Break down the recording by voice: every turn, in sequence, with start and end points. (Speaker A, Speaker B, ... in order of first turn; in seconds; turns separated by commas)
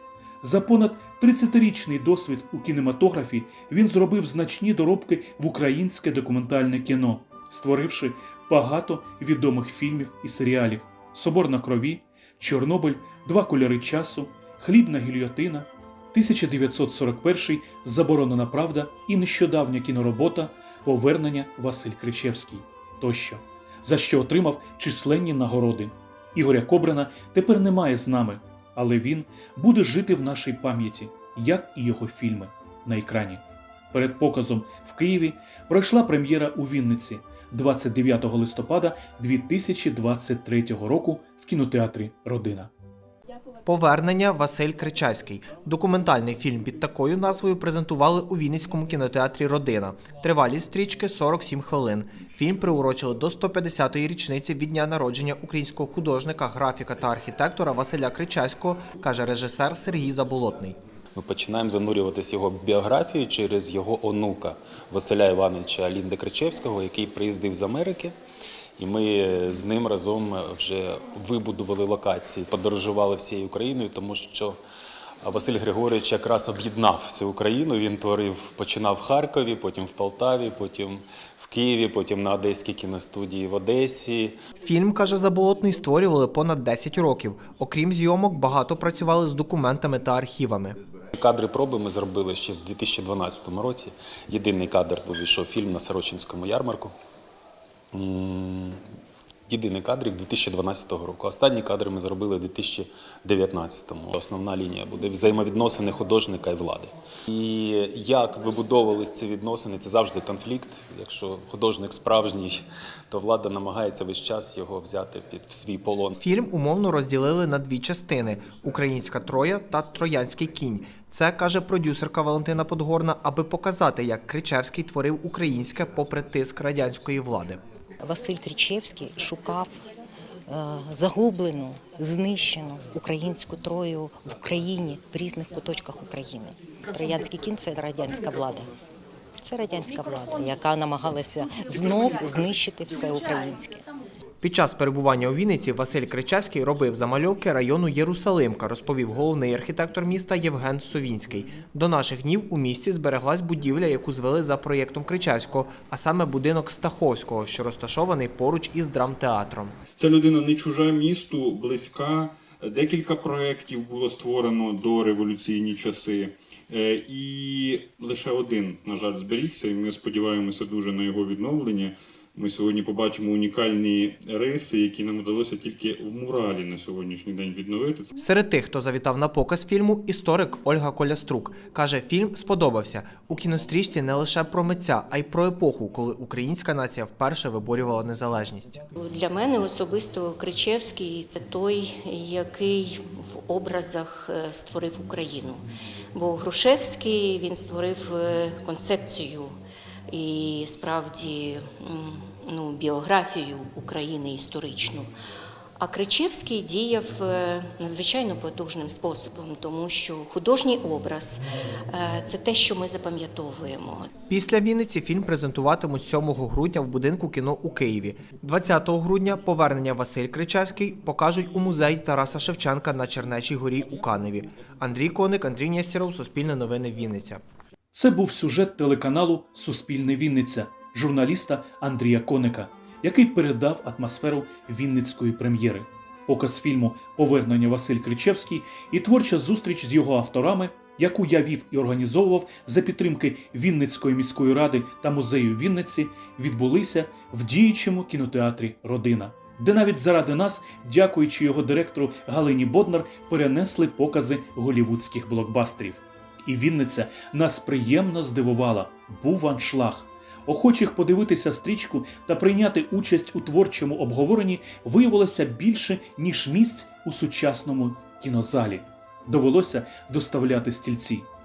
Speaker A: 0.4-33.4, Speaker A: 33.9-42.7, Speaker B: 43.6-60.8, Speaker C: 61.1-68.2, Speaker C: 68.8-74.6, Speaker C: 75.2-84.4, Speaker B: 84.6-90.8, Speaker C: 91.1-96.9, Speaker C: 97.9-98.8, Speaker C: 99.5-116.2, Speaker B: 116.2-127.6, Speaker D: 128.0-129.8, Speaker D: 130.5-138.7, Speaker D: 139.4-143.8, Speaker B: 144.4-159.8, Speaker E: 159.9-178.1, Speaker B: 178.2-188.8, Speaker F: 189.0-199.6, Speaker F: 200.1-205.1, Speaker F: 205.8-214.1, Speaker B: 214.3-227.4, Speaker A: 227.9-271.3